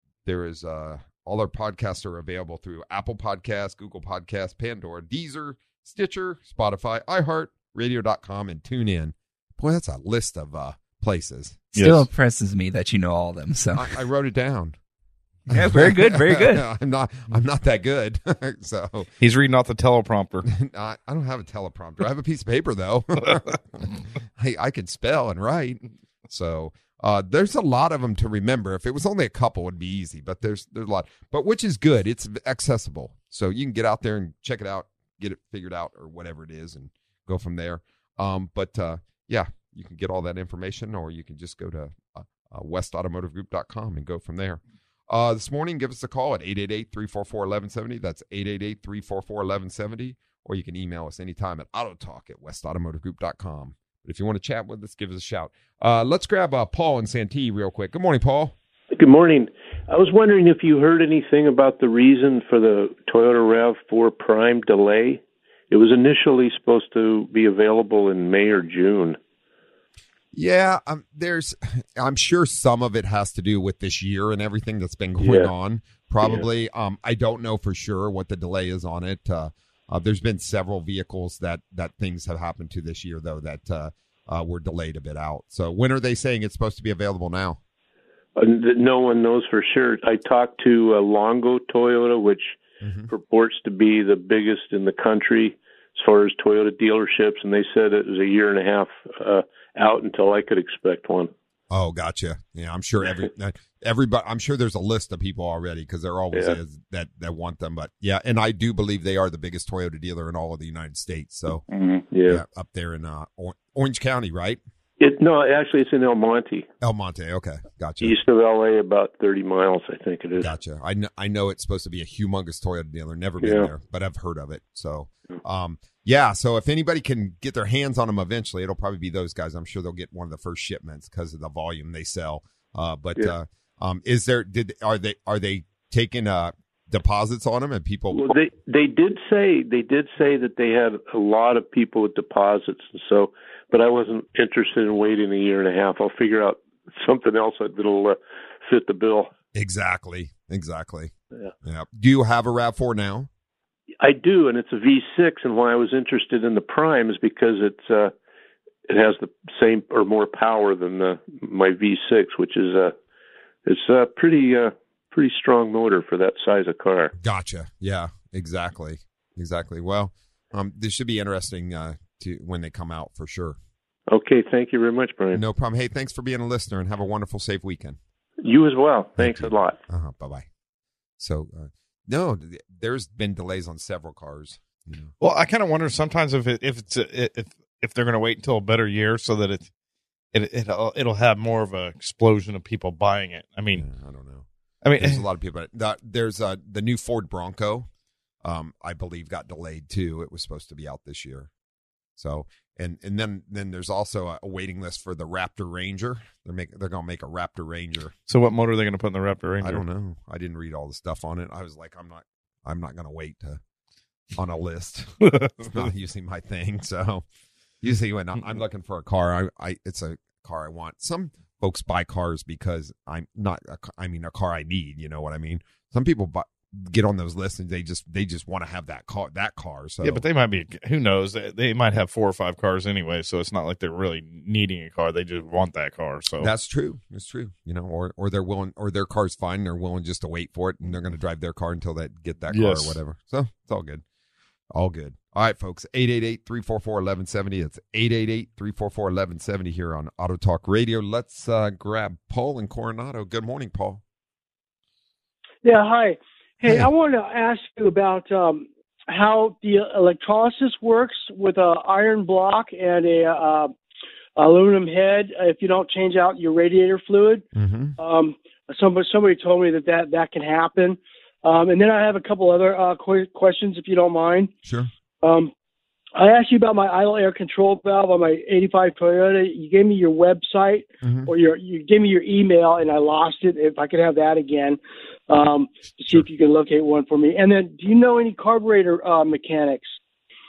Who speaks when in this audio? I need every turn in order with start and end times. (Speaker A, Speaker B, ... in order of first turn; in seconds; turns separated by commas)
Speaker A: 0.2-11.8, Speaker B: 11.8-12.1, Speaker C: 11.8-13.9, Speaker A: 13.8-14.8, Speaker C: 15.5-16.6, Speaker A: 15.5-19.1, Speaker B: 19.2-20.5, Speaker A: 20.4-23.4, Speaker A: 24.4-58.5, Speaker D: 58.9-69.2, Speaker A: 70.3-87.6, Speaker D: 75.2-75.5, Speaker D: 88.4-92.6, Speaker A: 92.8-93.1, Speaker D: 93.1-101.3, Speaker A: 101.7-111.7, Speaker D: 106.3-106.6, Speaker D: 111.7-112.4, Speaker A: 112.3-114.6, Speaker D: 115.0-116.7, Speaker A: 116.8-118.2, Speaker D: 118.0-120.5, Speaker A: 120.4-138.4, Speaker D: 123.4-123.7, Speaker D: 138.1-149.3, Speaker A: 149.5-151.1, Speaker A: 151.6-153.3, Speaker D: 154.0-158.1, Speaker D: 158.9-162.9, Speaker D: 163.7-167.2, Speaker A: 167.2-173.6, Speaker D: 174.1-175.4, Speaker A: 175.3-178.0, Speaker D: 178.4-179.8, Speaker A: 179.2-180.5, Speaker A: 181.2-185.1, Speaker B: 185.2-189.7, Speaker B: 190.3-193.9, Speaker A: 193.8-197.9, Speaker B: 194.8-195.2, Speaker A: 198.4-201.5, Speaker A: 202.2-208.2, Speaker B: 208.3-209.8, Speaker A: 209.6-213.6, Speaker A: 214.4-217.2, Speaker B: 215.2-215.9, Speaker A: 217.8-230.2, Speaker B: 230.0-236.5, Speaker A: 236.4-244.0, Speaker B: 242.5-243.0, Speaker A: 244.7-254.0, Speaker E: 255.6-263.7, Speaker E: 264.4-267.5, Speaker A: 267.6-268.0, Speaker E: 268.0-274.5, Speaker A: 274.6-274.9, Speaker E: 275.2-275.5, Speaker E: 276.2-290.0, Speaker A: 281.0-281.3